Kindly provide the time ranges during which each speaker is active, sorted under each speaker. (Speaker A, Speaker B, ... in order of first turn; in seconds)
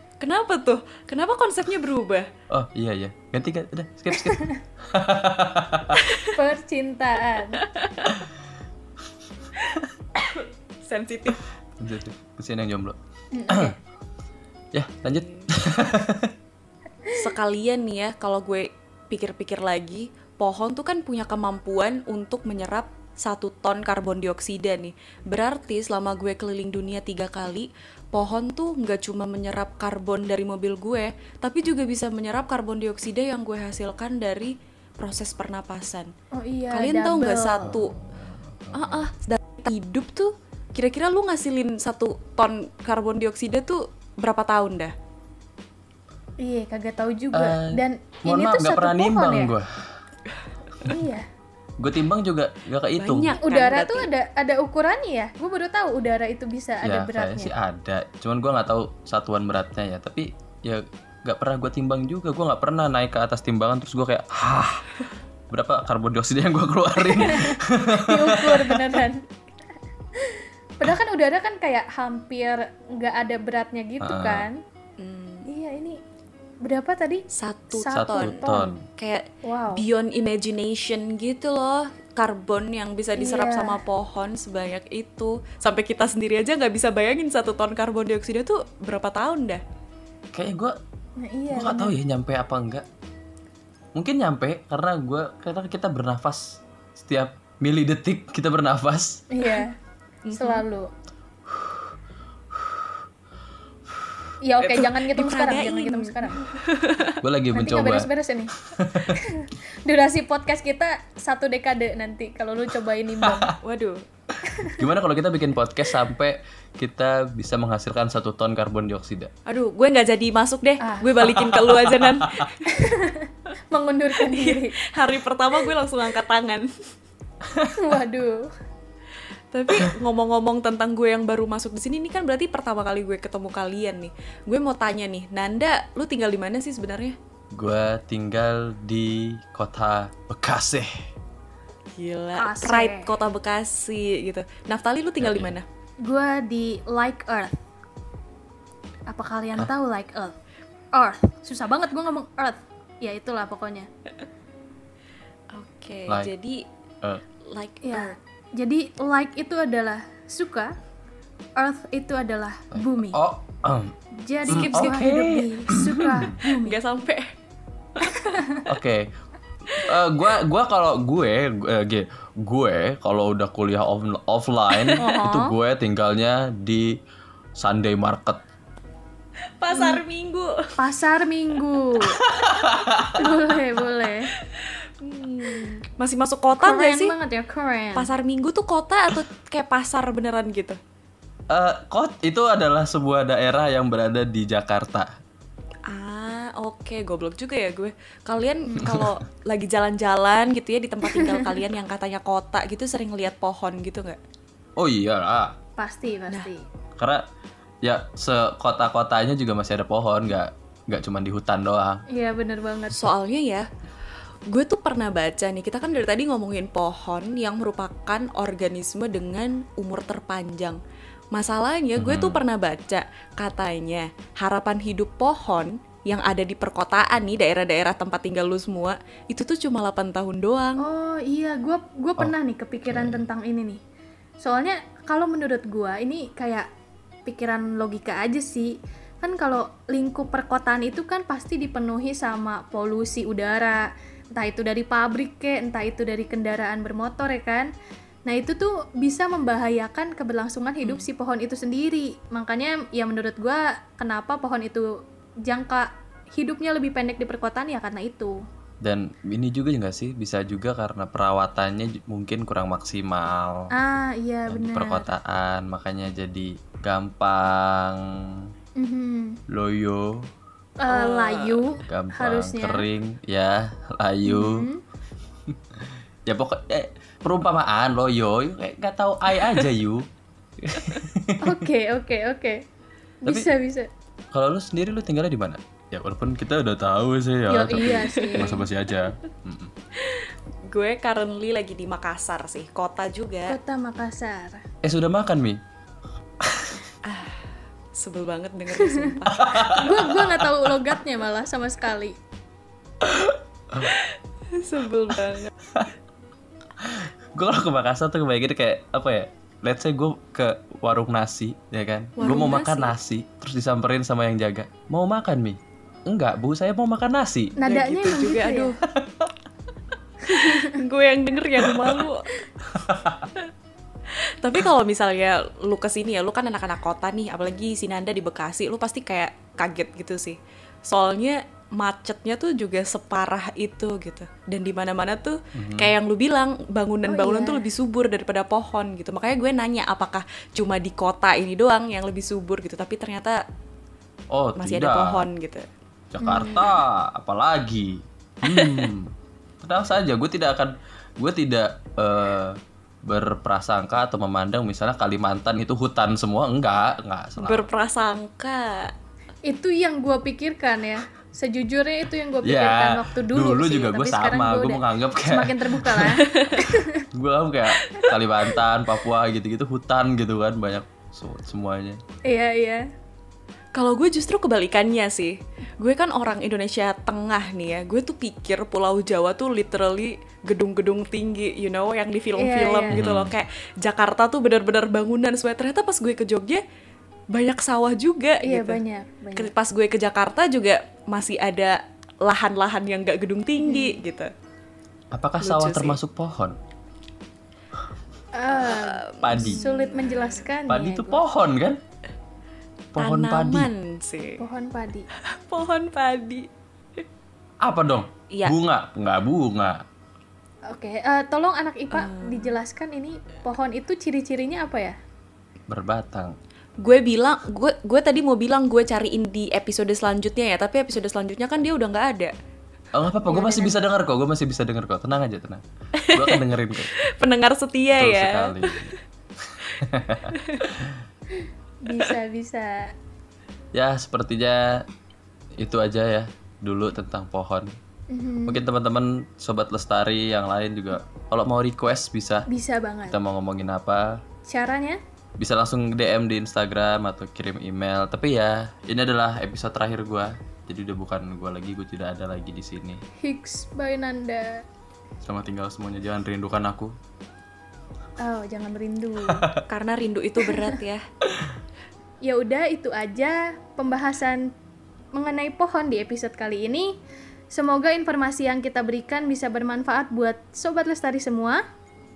Speaker A: 0.2-2.3, 6.0-6.3, 7.6-8.1, 9.6-11.4, 15.1-15.5, 17.1-36.1, 36.7-38.0, 38.7-44.9, 53.0-54.1, 75.0-75.5, 77.3-89.6, 100.2-100.6, 104.6-107.2, 113.6-114.0, 119.5-122.7, 124.2-126.7, 129.5-137.2, 142.0-145.7, 155.5-156.6, 157.4-158.2, 164.5-164.8, 166.6-167.3, 167.9-168.4, 174.8-175.5, 179.6-180.8, 184.4-187.1, 187.9-190.8, 195.9-204.2, 212.9-213.7, 214.5-220.8, 221.3-230.9, 250.8-251.1, 270.9-271.6, 288.0-288.5, 289.9-293.6, 297.0-299.4, 303.8-305.5, 312.2-312.9, 317.6-318.8, 320.3-322.4, 324.1-343.4, 344.6-345.7, 346.2-346.8, 348.4-348.9, 357.4-358.9, 366.2-366.6, 373.7-386.6, 387.3-388.8, 389.4-394.3, 395.4-396.0, 398.5-400.5, 403.0-404.4, 405.1-407.0, 408.3-408.6, 411.9-412.6, 416.8-422.3, 426.0-426.4, 427.0-429.0, 430.3-430.7, 459.7-461.0
Speaker B: 2.5-6.0, 11.8-13.0, 13.5-13.7, 14.7-16.3, 37.6-39.1, 47.3-50.0, 51.8-53.4, 56.8-65.0, 65.5-69.0, 74.0-74.5, 77.9-78.8, 90.3-90.8, 91.5-92.8, 93.9-99.2, 101.5-101.9, 102.5-103.0, 107.2-109.2, 113.2-113.5, 114.6-119.3, 121.3-122.5, 127.5-127.7, 137.5-141.1, 145.2-145.5, 162.7-163.9, 164.5-166.4, 168.7-169.1, 169.7-176.9, 177.6-178.4, 182.1-183.3, 191.5-195.1, 198.8-199.2, 204.8-205.6, 207.0-207.2, 207.8-212.0, 222.0-222.4, 232.9-233.2, 258.8-263.7, 264.5-268.5, 269.5-270.3, 271.8-274.7, 275.5-281.6, 284.3-289.7, 294.8-295.6, 296.4-296.9, 299.3-300.7, 303.0-303.9, 305.6-305.9, 306.8-317.6, 318.9-319.3, 321.7-322.0, 322.6-323.3, 335.5-335.9, 344.3-345.2, 346.1-357.7, 362.4-372.0, 382.9-383.3, 395.1-396.6, 399.2-399.6, 400.7-401.8, 402.9-403.7, 407.6-409.8, 415.7-416.4, 422.9-426.9, 427.9-431.0, 433.7-434.8, 435.6-437.7, 438.4-442.5, 443.1-444.2, 445.4-453.0, 455.2-456.9, 459.2-459.6
Speaker C: 4.2-4.6, 6.3-7.6, 13.3-13.8, 36.3-37.7, 46.4-49.5, 50.8-51.2, 53.4-57.5, 67.1-69.2, 70.2-74.6, 75.5-76.0, 76.6-78.7, 79.4-79.8, 83.2-83.8, 91.2-91.9, 99.3-99.7, 100.3-100.9, 104.4-106.4, 107.5-113.5, 114.4-114.8, 120.8-121.3, 122.7-124.8, 127.7-128.5, 142.4-143.1, 146.0-147.6, 149.1-150.3, 150.9-153.9, 157.8-160.7, 161.6-163.2, 164.2-166.8, 168.0-168.7, 179.7-180.0, 180.8-182.2, 183.1-184.3, 186.6-188.1, 198.7-199.0, 201.1-201.6, 205.8-206.7, 212.1-213.0, 230.8-233.8, 234.4-236.7, 237.3-247.7, 248.3-258.4, 263.7-265.1, 268.8-269.4, 270.8-272.9, 274.2-274.8, 281.4-282.6, 283.2-283.9, 287.5-288.7, 293.5-294.6, 298.8-302.2, 312.2-312.5, 317.6-318.8, 320.3-320.8, 337.0-337.6, 359.4-367.0, 367.9-368.1, 372.2-372.8, 382.4-383.0, 388.4-389.5, 393.6-394.0, 398.3-401.2, 404.4-405.1, 410.7-415.0, 423.3-423.8, 431.4-432.9, 438.1-438.6, 442.5-443.2, 444.4-445.0, 453.2-454.6, 458.2-459.5, 460.4-460.8, 462.2-464.5, 465.1-466.9, 467.5-471.6